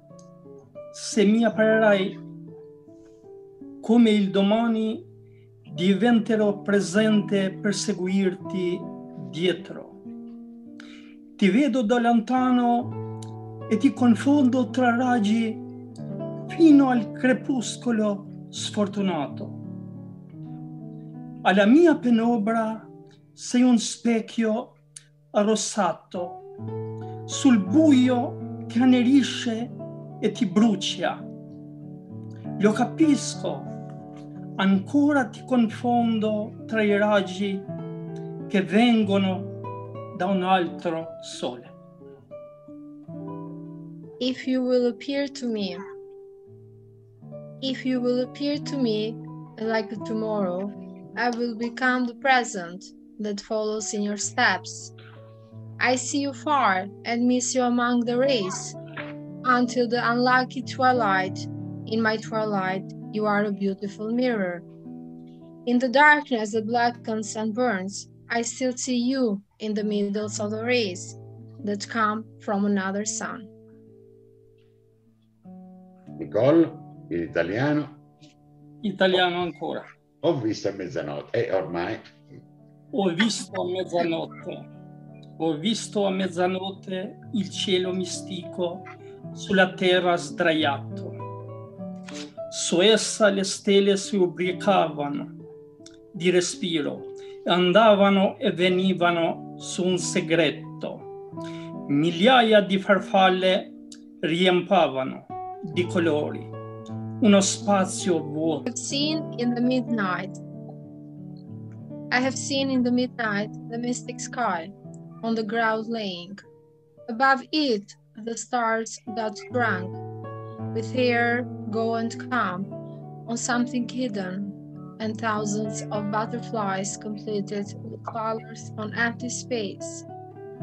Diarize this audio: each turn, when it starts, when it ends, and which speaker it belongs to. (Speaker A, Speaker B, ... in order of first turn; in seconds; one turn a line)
Speaker A: 0.9-2.2
Speaker A: 3.8-5.0
Speaker A: 5.7-10.0
Speaker A: 11.4-12.9
Speaker A: 13.7-15.6
Speaker A: 16.5-19.6
Speaker A: 21.4-24.8
Speaker A: 25.3-26.4
Speaker A: 27.3-31.2
Speaker A: 32.6-33.7
Speaker A: 34.6-37.7
Speaker A: 38.5-39.5
Speaker A: 40.1-41.7
Speaker B: 44.2-45.8
Speaker B: 47.6-54.9
Speaker B: 55.8-58.8
Speaker B: 59.4-64.6
Speaker B: 65.6-73.5
Speaker C: 76.2-78.0
Speaker A: 78.8-79.9
Speaker C: 80.2-82.1
Speaker A: 82.9-84.6
Speaker A: 85.4-91.2
Speaker A: 92.5-95.3
Speaker A: 96.1-101.1
Speaker A: 101.9-103.7
Speaker A: 104.2-106.5
Speaker A: 107.2-108.6
Speaker B: 108.7-110.4
Speaker B: 112.1-116.4
Speaker B: 117.1-120.0
Speaker B: 120.7-122.7
Speaker B: 123.2-130.1